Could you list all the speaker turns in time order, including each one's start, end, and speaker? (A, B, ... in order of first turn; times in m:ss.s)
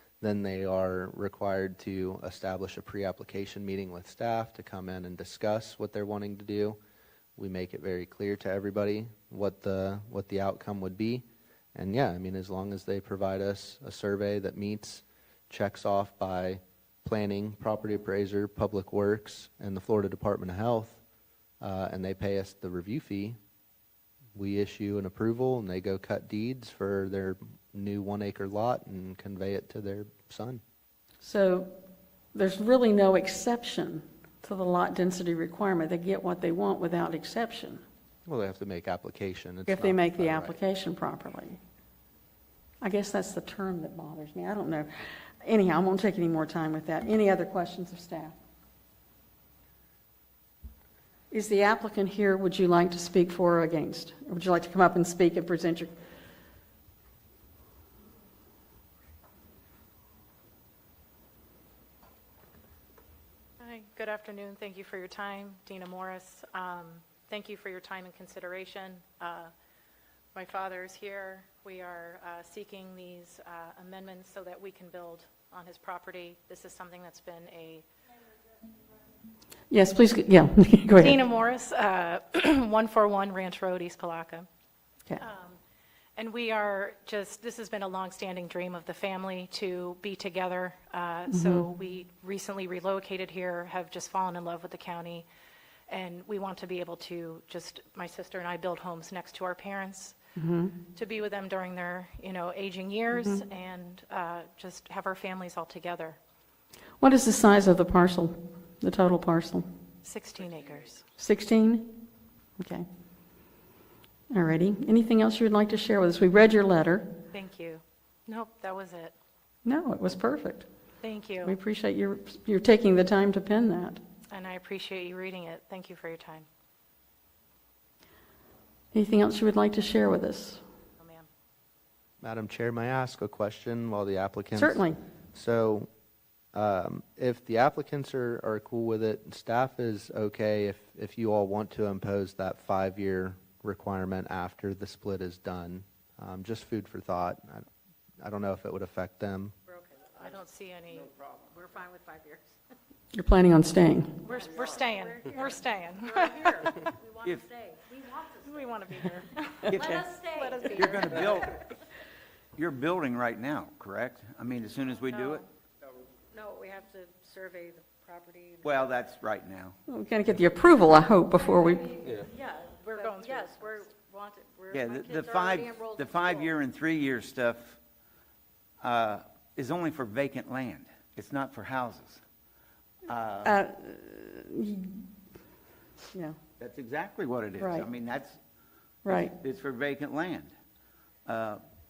0:00.2-0:06.8 A
0:07.4-0:21.0 A
0:21.6-0:23.4 A
0:24.4-0:30.6 A
0:31.2-0:31.7 B
0:32.3-0:37.8 B
0:38.3-0:40.5 A
0:39.7-0:41.6 B
0:42.8-0:48.3 B
0:51.3-0:55.9 B
1:03.6-1:09.5 C
1:10.3-1:17.8 C
1:19.7-1:21.2 B
1:21.0-1:24.5 C
1:25.2-1:25.6 C
1:26.2-1:35.3 C
1:31.3-1:31.6 B
1:35.9-1:40.2 C
1:40.4-1:40.8 B
1:40.9-1:46.2 C
1:43.1-1:43.4 B
1:47.0-1:49.6 B
1:50.0-1:51.0 C
1:51.2-1:52.0 B
1:52.6-1:52.8 B
1:54.3-1:57.2 B
1:57.3-1:59.1 C
1:59.6-2:00.7 B
2:01.0-2:01.6 C
2:01.4-2:04.0 B
2:04.3-2:06.5 C
2:08.9-2:10.6 B
2:11.0-2:11.3 C
2:12.2-2:14.8 A
2:14.6-2:15.0 B
2:15.3-2:15.9 A
2:16.5-2:27.7 A
2:28.2-2:29.5 A
2:29.7-2:30.2 D
2:30.2-2:31.1 C
2:31.2-2:32.5 D
2:33.1-2:34.2 B
2:34.2-2:39.0 D
2:34.2-2:36.8 C
2:38.4-2:41.4 C
2:39.7-2:41.6 D
2:40.7-2:41.6 E
2:42.6-2:45.4 E
2:46.3-2:48.8 D
2:48.6-2:49.8 E
2:49.9-2:52.0 B
2:51.6-2:56.5 D
2:52.8-2:53.9 C
2:54.7-2:57.8 E
2:58.8-3:02.2 E
3:03.1-3:03.6 E
3:03.4-3:05.1 B
3:06.6-3:08.4 E
3:07.6-3:07.8 B
3:09.0-3:09.3 B
3:09.1-3:10.5 E
3:11.2-3:11.6 E